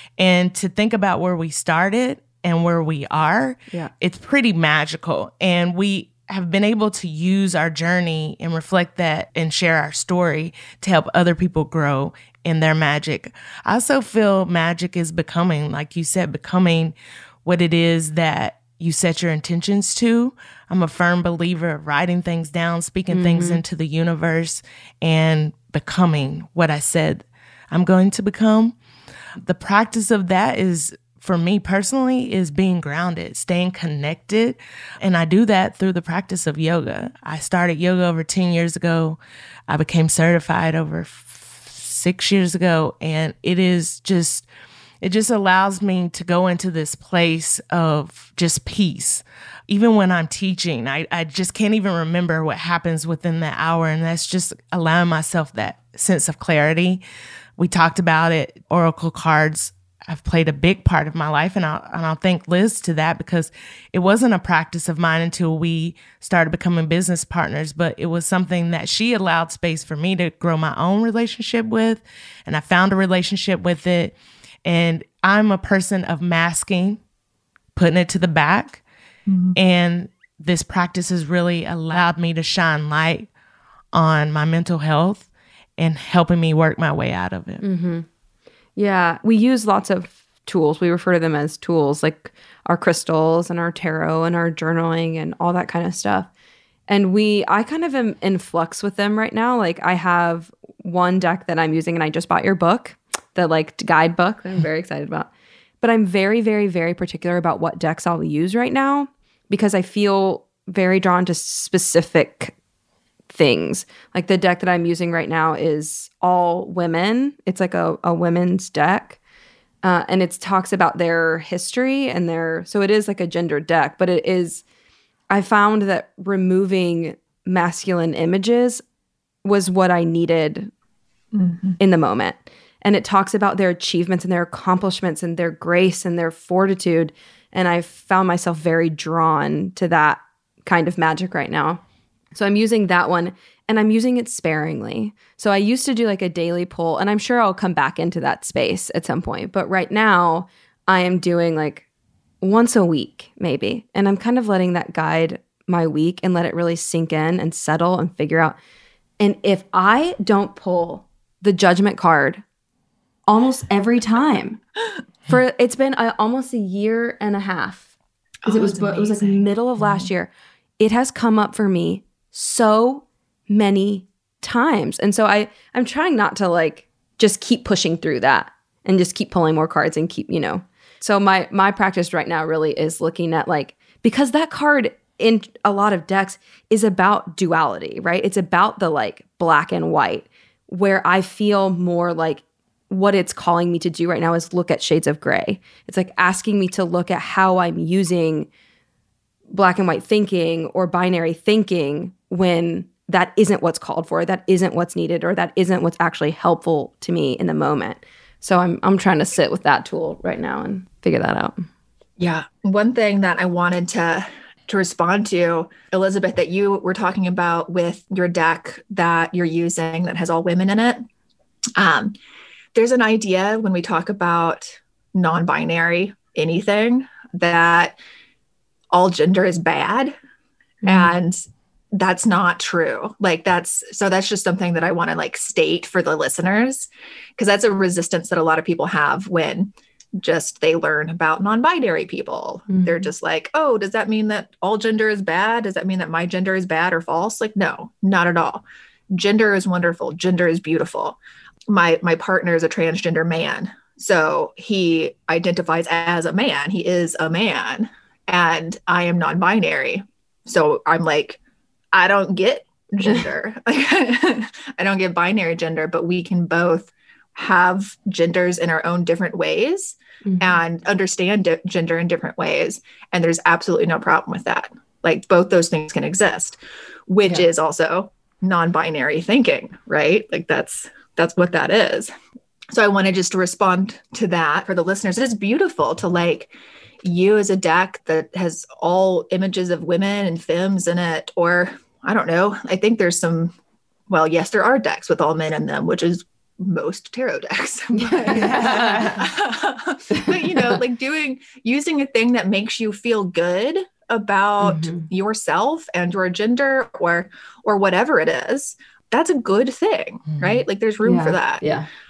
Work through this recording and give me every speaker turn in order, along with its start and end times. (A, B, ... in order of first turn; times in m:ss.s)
0:00.2-0:16.9 A
0:17.4-0:28.8 A
0:23.1-0:23.6 B
0:29.4-0:44.5 A
0:45.0-0:57.0 A
0:57.6-1:17.0 A
1:17.8-1:18.8 A
1:19.3-1:19.6 C
1:19.6-1:23.3 A
1:23.9-1:27.6 A
1:27.6-1:28.0 B
1:28.8-1:36.3 B
1:36.9-1:45.3 B
1:45.8-1:52.5 B
1:53.3-1:59.2 B
1:59.8-2:04.6 B
2:05.3-2:08.8 B
2:09.4-2:10.7 B
2:11.3-2:11.8 C
2:11.8-2:21.8 B
2:22.3-2:31.8 B
2:32.4-2:38.6 B
2:39.2-2:42.4 B
2:43.3-2:44.6 B
2:45.3-2:47.9 B
2:48.4-2:49.4 C
2:48.4-3:18.5 B
3:19.5-3:31.7 B
3:32.2-3:41.0 C
3:41.8-3:42.1 C
3:42.7-3:48.0 C
3:48.9-3:50.1 C
3:50.8-3:51.1 B
3:50.8-3:51.4 C
3:51.9-4:21.4 C
4:02.7-4:03.1 B
4:21.9-4:42.1 C
4:30.2-4:30.6 B
4:42.7-4:46.5 C
4:47.0-4:53.5 C
4:54.1-5:11.6 C
4:57.9-4:59.2 B
4:58.3-4:59.2 A
5:00.1-5:00.8 B
5:04.6-5:05.1 B
5:10.4-5:10.6 A
5:11.0-5:11.9 B